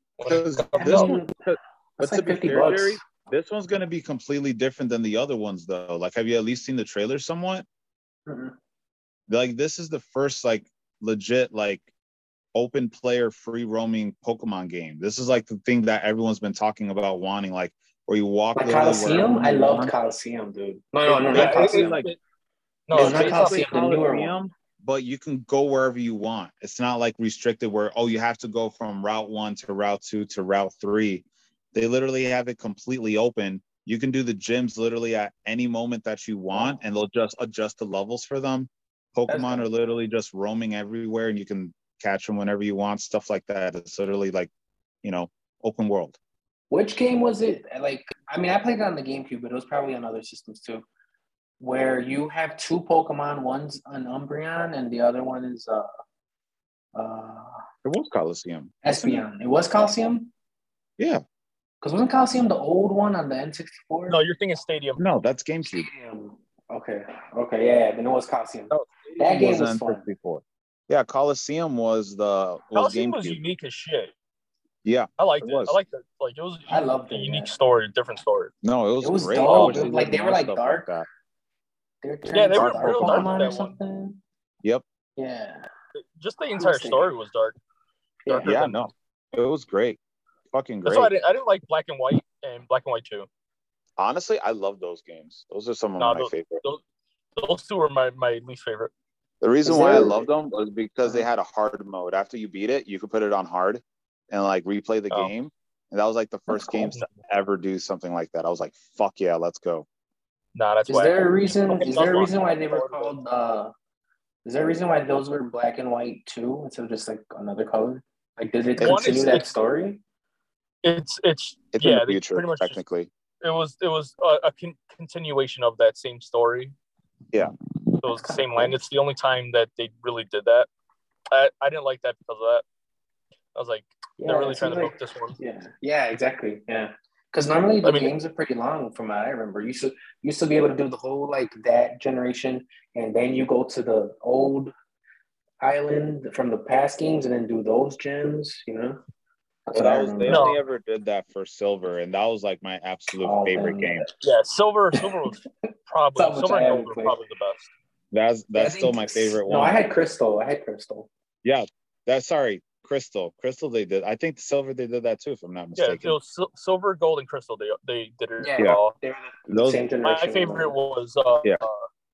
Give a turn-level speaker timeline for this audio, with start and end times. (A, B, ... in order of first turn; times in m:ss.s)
0:00.2-0:01.1 A
0:00.2-0:07.6 B
0:00.8-0:01.4 C
0:02.0-0:03.0 C
0:08.3-0:08.5 C
0:09.3-0:11.9 B
0:12.5-0:19.9 B
0:18.6-0:22.0 C
0:21.1-0:22.1 B
0:21.3-0:22.2 A
0:22.9-0:23.6 A
0:22.9-0:24.3 C
0:22.9-0:44.5 B
0:36.5-0:36.8 C
0:39.3-0:39.7 C
0:45.0-0:46.2 B
0:46.7-0:50.8 C
0:51.6-0:55.9 C
0:56.9-0:57.6 C
0:57.8-0:59.2 B
0:58.8-1:00.3 C
1:01.8-1:04.2 C
1:04.1-1:05.0 A
1:05.0-1:05.9 B
1:05.6-1:10.0 C
1:08.7-1:13.4 B
1:12.7-1:14.1 A
1:14.8-1:15.8 B
1:15.2-1:18.5 A
1:16.7-1:17.5 C
1:18.6-1:21.1 B
1:19.0-1:20.9 C
1:19.4-1:19.9 A
1:22.0-1:24.2 C
1:22.3-1:23.8 A
1:22.5-1:23.4 B
1:25.2-1:25.7 C
1:25.9-1:27.6 A
1:26.6-1:27.1 C
1:28.2-1:28.5 C
1:28.3-1:28.8 A
1:28.4-1:30.0 B
1:30.5-1:31.1 B
1:30.8-1:33.3 A
1:34.0-1:36.6 B
1:36.0-1:36.8 A
1:37.4-1:38.9 A
1:39.4-1:49.8 B
1:39.6-1:40.2 C
1:46.5-1:47.1 C
1:50.5-1:53.2 A
1:50.9-1:53.7 C
1:54.4-2:00.0 C
1:58.8-1:59.2 B
1:58.8-1:59.5 A
2:00.8-2:02.8 A
2:01.7-2:03.1 B
2:03.4-2:06.7 A
2:08.0-2:10.7 A
2:08.1-2:08.7 C
2:11.3-2:12.6 A
2:13.5-2:15.4 A
2:14.2-2:24.7 C
2:17.8-2:18.1 A
2:25.6-2:29.0 C
2:29.7-2:30.5 C
2:29.7-2:34.1 B
2:30.3-2:30.6 A
2:33.2-2:34.1 C
2:34.2-2:37.7 A
2:36.1-2:37.2 C
2:38.1-2:39.8 B
2:38.5-2:41.1 C
2:41.4-2:46.2 B
2:45.8-2:48.9 A
2:48.4-2:50.7 C
2:49.5-2:49.8 B
2:50.0-2:51.8 A